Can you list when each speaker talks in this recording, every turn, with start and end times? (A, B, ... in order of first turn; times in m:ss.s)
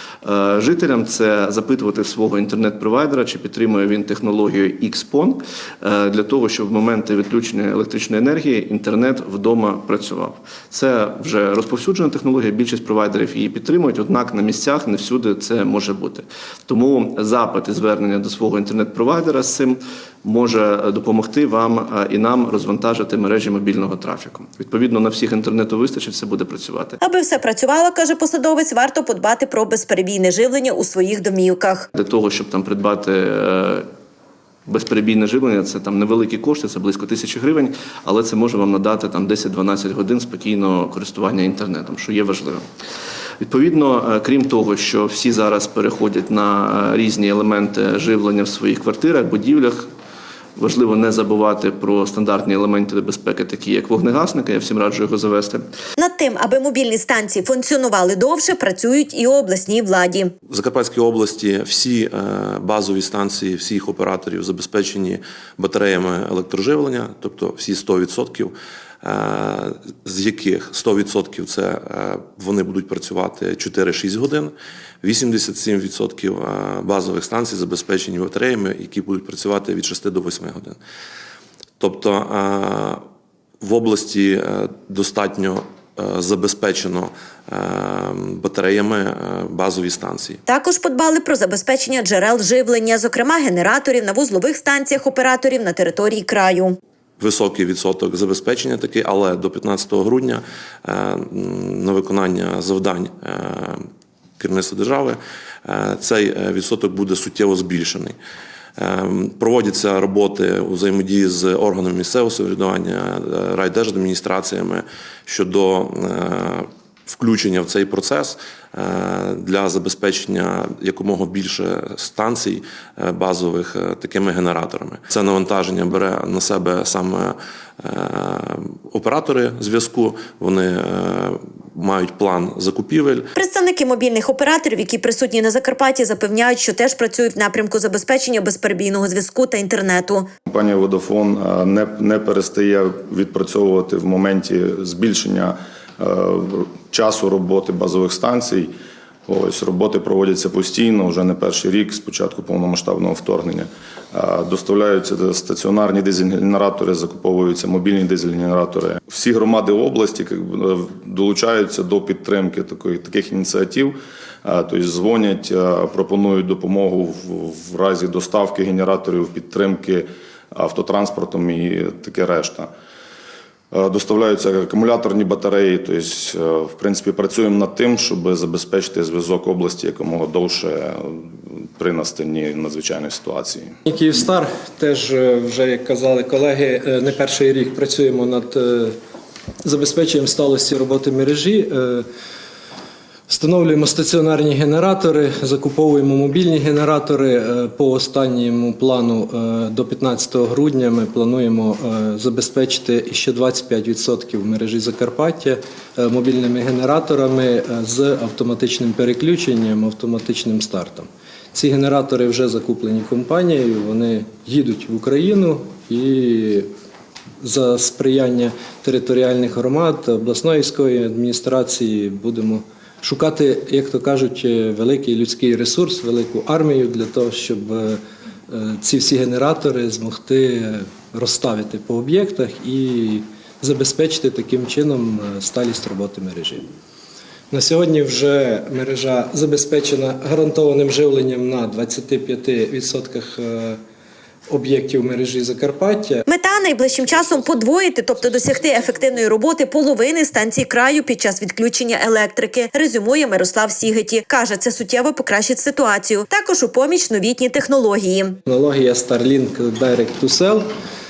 0:00.2-0:27.0 A
0:27.0-0:31.8 B
0:31.9-0:33.8 A
0:34.7-0:42.6 A
0:43.4-0:49.9 A
0:50.6-0:55.6 A
0:56.0-1:00.3 B
1:00.5-1:20.8 C
1:21.8-1:23.0 C
1:23.6-1:30.4 C
1:30.5-1:36.8 B
1:37.2-1:43.8 C
1:44.4-1:48.2 C
1:48.8-2:13.3 C
2:13.3-2:20.3 B
2:20.5-2:28.7 D
2:29.3-2:52.7 D
2:53.7-3:03.7 D
3:03.8-3:08.9 E
3:09.6-3:12.0 E
3:13.3-3:36.7 E
3:37.4-3:56.6 E
3:57.5-4:03.8 E
4:04.5-4:06.3 E
4:06.3-4:18.4 B
4:06.8-4:07.6 E
4:08.2-4:09.3 E
4:18.4-4:20.6 E